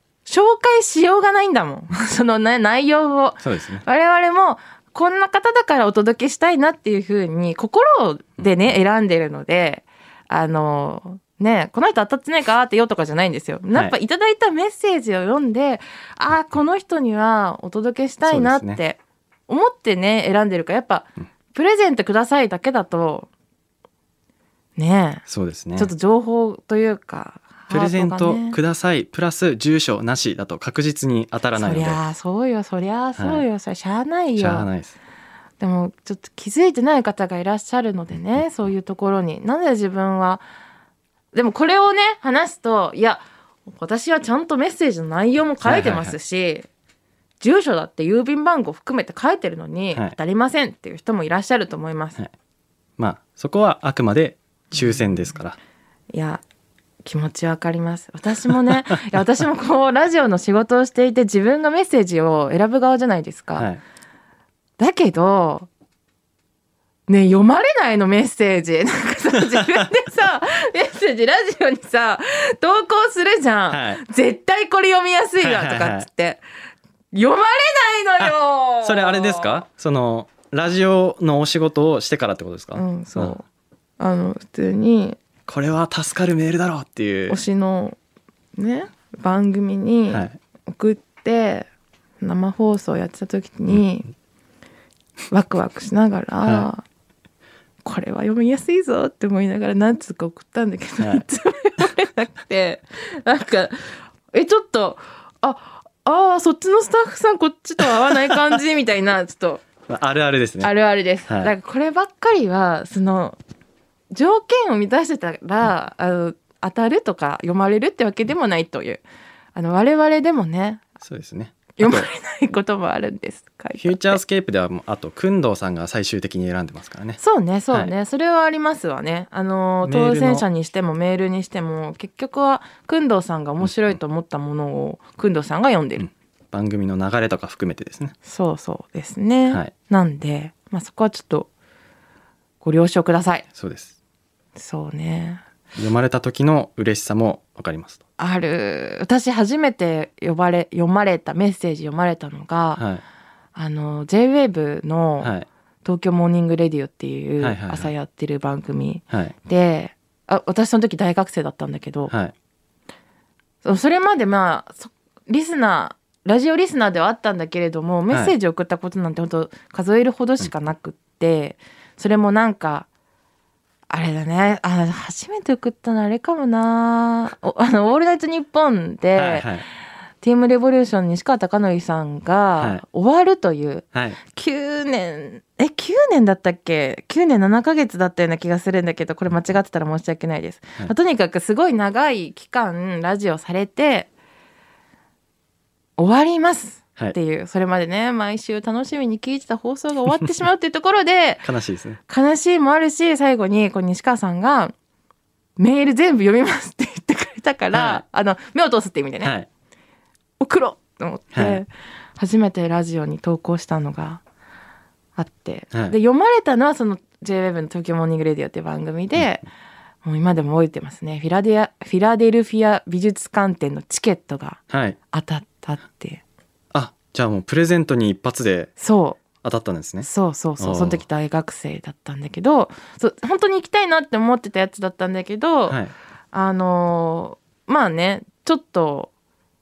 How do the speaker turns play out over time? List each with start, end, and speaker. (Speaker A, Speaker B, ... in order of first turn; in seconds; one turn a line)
Speaker A: 0.3-23.3
Speaker B: 3.4-3.9
Speaker B: 18.3-18.8
Speaker A: 24.8-25.2
Speaker B: 25.3-25.9
Speaker A: 25.8-28.6
Speaker B: 27.7-32.0
Speaker A: 31.6-34.7
Speaker B: 33.2-33.4
Speaker B: 34.4-35.0
Speaker A: 35.6-40.4
Speaker A: 41.3-46.7
Speaker B: 45.6-46.2
Speaker A: 47.4-52.2
Speaker B: 53.0-55.6
Speaker A: 54.7-55.2
Speaker A: 56.1-56.4
Speaker A: 57.0-63.7
Speaker A: 64.8-65.7
Speaker A: 67.1-76.4
Speaker B: 69.5-69.8
Speaker B: 73.7-74.0
Speaker B: 75.4-76.1
Speaker A: 77.1-79.6
Speaker B: 78.2-83.4
Speaker A: 82.8-83.4
Speaker A: 84.0-85.2
Speaker B: 85.5-87.4
Speaker A: 87.3-88.0
Speaker A: 88.6-91.7
Speaker B: 90.1-90.4
Speaker A: 92.2-94.1
Speaker A: 95.3-96.8
Speaker A: 97.8-109.6
Speaker B: 109.9-110.7
Speaker A: 110.6-113.4
Speaker B: 111.3-111.5
Speaker A: 114.1-119.0
Speaker A: 119.5-120.9
Speaker B: 121.0-122.1
Speaker A: 121.8-124.2
Speaker B: 123.8-127.2
Speaker A: 127.2-136.1
Speaker B: 129.8-130.4
Speaker B: 133.6-133.9
Speaker B: 136.0-138.1
Speaker A: 138.2-141.5
Speaker A: 142.6-143.4
Speaker B: 143.5-143.9
Speaker A: 144.6-145.4
Speaker B: 145.8-148.0
Speaker A: 148.2-152.8
Speaker B: 152.8-153.0
Speaker A: 153.6-155.3
Speaker B: 155.2-155.5
Speaker A: 155.8-162.1
Speaker B: 157.4-157.9
Speaker A: 163.6-172.9
Speaker A: 173.9-179.5
Speaker B: 179.2-179.7
Speaker A: 180.2-194.1
Speaker B: 183.9-184.2
Speaker A: 196.0-201.5
Speaker B: 201.4-202.0
Speaker A: 202.1-204.7
Speaker A: 205.6-209.3
Speaker B: 207.7-208.0
Speaker B: 209.2-209.5
Speaker A: 210.4-214.2
Speaker B: 211.3-211.6
Speaker A: 215.2-219.4
Speaker A: 220.0-226.2
Speaker B: 224.7-225.0
Speaker B: 226.7-228.7
Speaker A: 228.8-229.2
Speaker B: 229.4-230.1
Speaker A: 230.0-235.8
Speaker B: 230.6-231.0
Speaker B: 235.7-235.9
Speaker A: 236.3-239.1